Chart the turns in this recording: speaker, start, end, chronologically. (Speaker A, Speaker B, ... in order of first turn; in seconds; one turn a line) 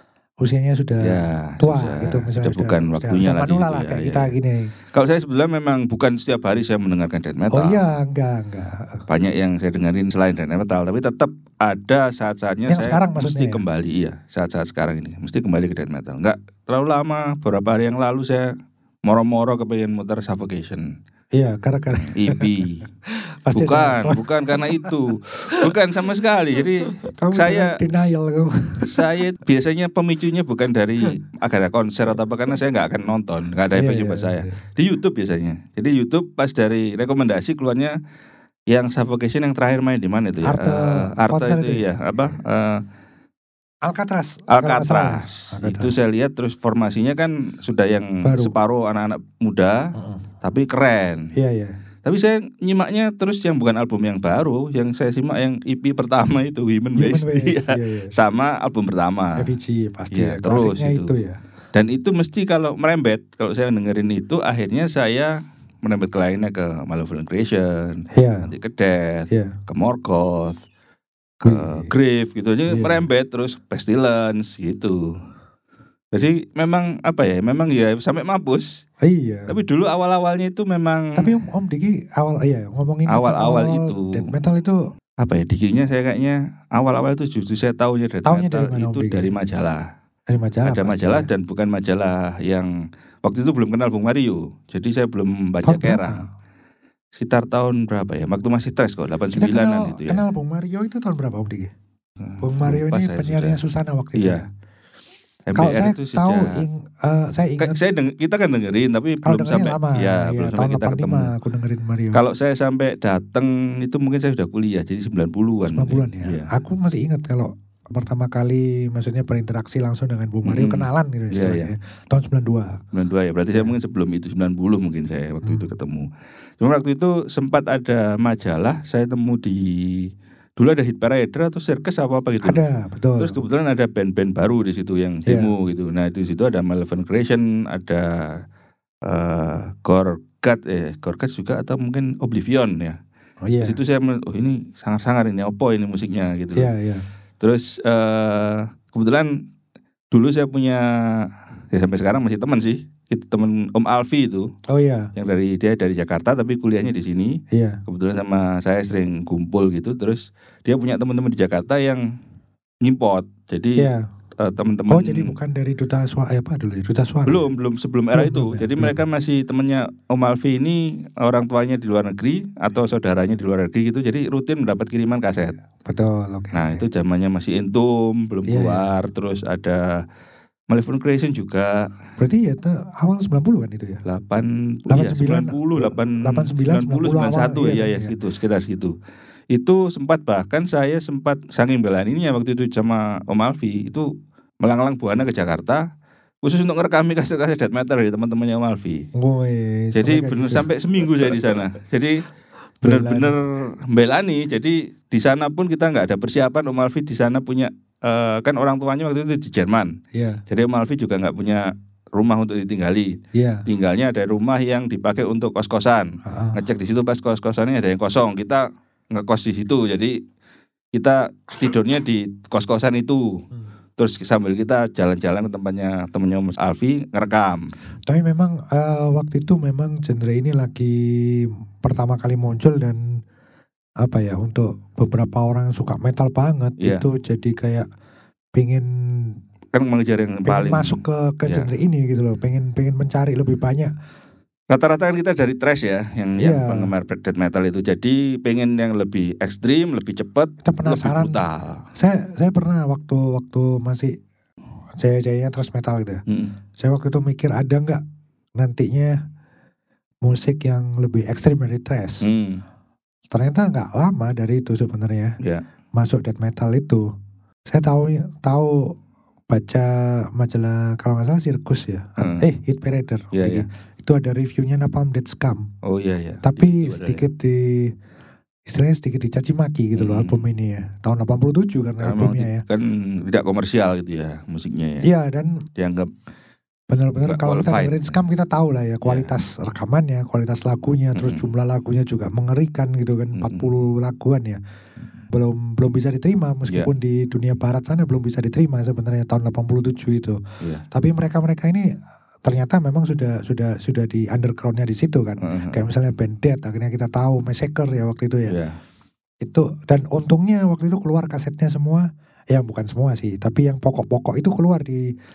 Speaker A: 0.4-4.7
Speaker B: 1.0-4.3
Speaker B: 4.9-7.8
Speaker A: 7.5-9.1
Speaker B: 9.1-18.5
Speaker A: 12.7-13.6
Speaker B: 19.1-21.0
Speaker A: 21.3-22.5
Speaker B: 21.9-22.9
Speaker A: 23.1-25.0
Speaker B: 23.5-28.0
Speaker A: 27.1-29.1
Speaker B: 28.8-38.0
Speaker A: 33.7-34.5
Speaker B: 38.7-42.8
Speaker A: 40.5-42.4
Speaker A: 43.8-45.9
Speaker B: 44.5-51.4
Speaker A: 48.2-48.6
Speaker A: 50.0-50.2
Speaker A: 51.3-51.8
Speaker B: 52.0-59.5
Speaker A: 57.0-58.1
Speaker A: 59.4-61.4
Speaker B: 60.1-61.1
Speaker B: 61.7-70.6
Speaker A: 68.1-68.5
Speaker A: 69.3-69.6
Speaker B: 71.4-75.2
Speaker A: 71.4-71.9
Speaker A: 72.7-73.0
Speaker B: 76.1-78.8
Speaker A: 79.0-79.5
Speaker B: 79.5-81.3
Speaker A: 81.2-84.8
Speaker B: 83.1-84.3
Speaker B: 85.2-89.8
Speaker A: 88.2-89.3
Speaker A: 90.3-91.3
Speaker B: 90.6-92.7
Speaker B: 93.2-96.2
Speaker A: 95.6-96.2
Speaker B: 97.2-100.2
Speaker A: 99.4-101.7
Speaker B: 102.2-103.6
Speaker A: 102.4-104.5
Speaker B: 104.2-104.4
Speaker B: 105.5-106.6
Speaker A: 105.5-107.8
Speaker B: 107.6-111.3
Speaker A: 109.2-112.2
Speaker B: 112.1-116.5
Speaker A: 115.7-122.8
Speaker B: 120.5-121.7
Speaker B: 122.9-126.1
Speaker B: 126.6-132.6
Speaker A: 132.4-133.4
Speaker B: 133.2-138.4
Speaker A: 135.2-135.5
Speaker B: 139.1-143.0
Speaker A: 143.4-143.8
Speaker B: 143.6-146.7
Speaker A: 146.6-147.1
Speaker B: 147.4-149.4
Speaker B: 150.1-154.5
Speaker A: 154.7-155.1
Speaker B: 155.2-162.0
Speaker A: 157.5-157.8
Speaker B: 162.8-163.9
Speaker A: 163.8-164.1
Speaker B: 164.4-165.3
Speaker A: 164.9-167.5
Speaker B: 167.2-175.6
Speaker A: 168.1-169.0
Speaker A: 175.8-176.8
Speaker B: 176.5-180.0
Speaker A: 178.5-178.8
Speaker B: 180.7-181.9
Speaker A: 182.2-184.0
Speaker B: 184.1-188.9
Speaker A: 184.9-188.1
Speaker B: 189.5-194.1
Speaker B: 194.6-195.8
Speaker B: 196.4-199.1
Speaker A: 199.1-200.7
Speaker B: 199.9-202.2
Speaker A: 202.8-203.4
Speaker B: 202.8-220.2
Speaker A: 210.1-210.4
Speaker A: 213.3-213.7
Speaker A: 216.2-216.6
Speaker B: 220.9-223.4
Speaker B: 224.0-227.7
Speaker A: 228.1-233.2
Speaker A: 234.0-237.9
Speaker B: 236.8-237.1
Speaker A: 238.6-239.4
Speaker B: 239.7-241.7
Speaker A: 240.5-243.9
Speaker B: 244.7-251.9
Speaker A: 246.4-246.9
Speaker A: 250.6-251.4
Speaker A: 251.9-254.2
Speaker A: 255.0-256.2
Speaker B: 256.3-256.5
Speaker A: 256.8-258.0
Speaker A: 258.6-259.2
Speaker A: 260.2-262.2
Speaker B: 262.2-262.6
Speaker A: 263.3-265.4
Speaker A: 265.9-267.1
Speaker A: 267.7-269.0
Speaker A: 269.5-275.7
Speaker B: 272.2-272.5
Speaker B: 273.3-273.7
Speaker B: 275.8-277.2
Speaker A: 276.4-278.0
Speaker A: 278.7-282.6
Speaker B: 279.9-280.5
Speaker B: 282.0-285.1
Speaker A: 285.0-285.7
Speaker B: 285.8-286.1
Speaker A: 286.9-294.6
Speaker B: 287.2-288.2
Speaker B: 289.1-289.3
Speaker B: 291.1-291.5
Speaker B: 293.4-293.7
Speaker A: 295.3-300.4
Speaker A: 300.9-308.6
Speaker B: 305.4-305.9
Speaker B: 308.5-308.8
Speaker A: 309.4-315.1